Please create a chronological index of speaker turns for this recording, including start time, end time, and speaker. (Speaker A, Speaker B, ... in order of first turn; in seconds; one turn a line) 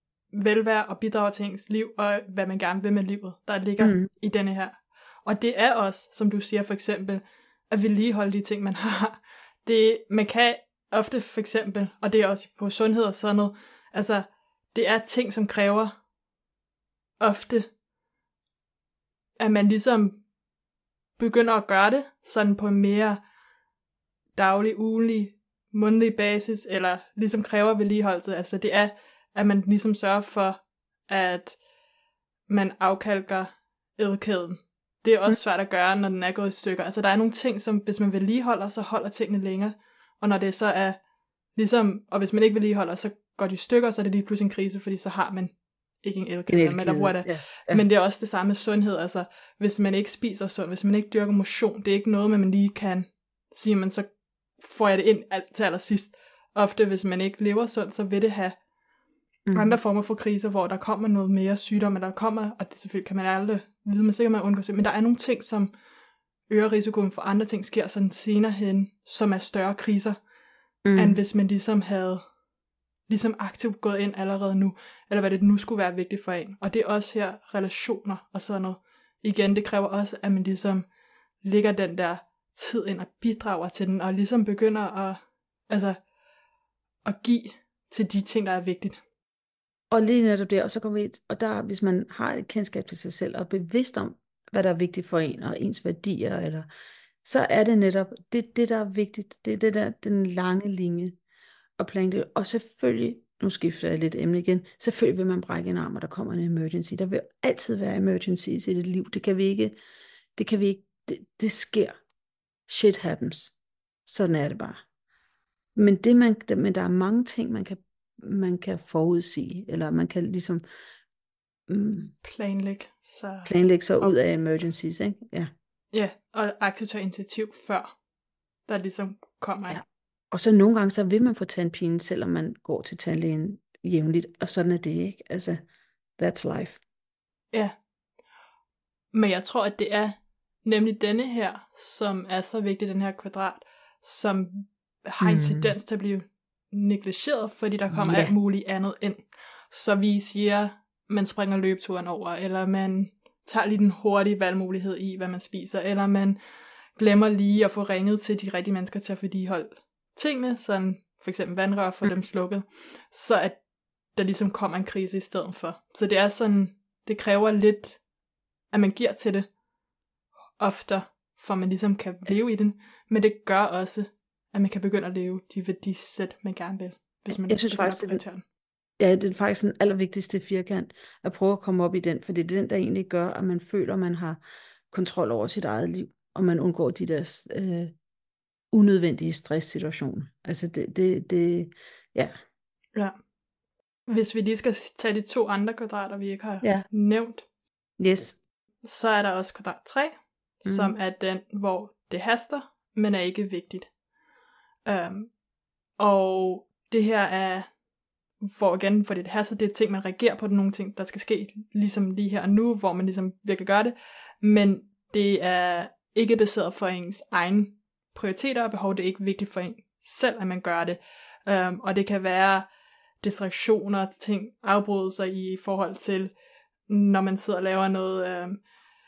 Speaker A: 0.3-16.0
Speaker B: 3.8-4.1
Speaker A: 17.2-17.7
Speaker A: 19.4-20.2
Speaker A: 21.2-23.2
Speaker A: 24.4-31.6
Speaker A: 32.5-41.0
Speaker A: 41.5-58.6
Speaker B: 46.5-47.8
Speaker B: 59.5-59.8
Speaker A: 59.5-65.7
Speaker A: 66.5-70.2
Speaker B: 70.8-71.2
Speaker A: 70.9-72.2
Speaker A: 73.1-80.9
Speaker A: 81.4-86.0
Speaker A: 87.0-89.0
Speaker B: 89.9-96.7
Speaker B: 97.2-101.2
Speaker B: 101.8-109.7
Speaker B: 110.3-112.0
Speaker B: 112.7-114.8
Speaker B: 115.8-120.6
Speaker B: 121.7-122.1
Speaker A: 122.2-124.2
Speaker B: 123.4-125.5
Speaker A: 125.9-127.9
Speaker A: 128.7-129.8
Speaker B: 129.7-135.6
Speaker B: 136.2-136.8
Speaker A: 139.1-156.4
Speaker B: 145.2-145.8
Speaker B: 147.9-148.3
Speaker A: 156.9-163.6
Speaker A: 164.1-168.0
Speaker A: 168.7-169.5
Speaker A: 170.6-178.4
Speaker B: 177.5-178.2
Speaker B: 179.0-184.4
Speaker B: 184.9-187.9
Speaker B: 188.7-192.3
Speaker A: 194.1-197.4
Speaker B: 196.6-196.9
Speaker B: 198.0-198.4
Speaker A: 198.8-203.9
Speaker B: 200.7-200.9
Speaker A: 204.8-205.3
Speaker A: 206.0-207.7
Speaker A: 208.4-222.7
Speaker A: 223.2-226.3
Speaker A: 226.9-228.7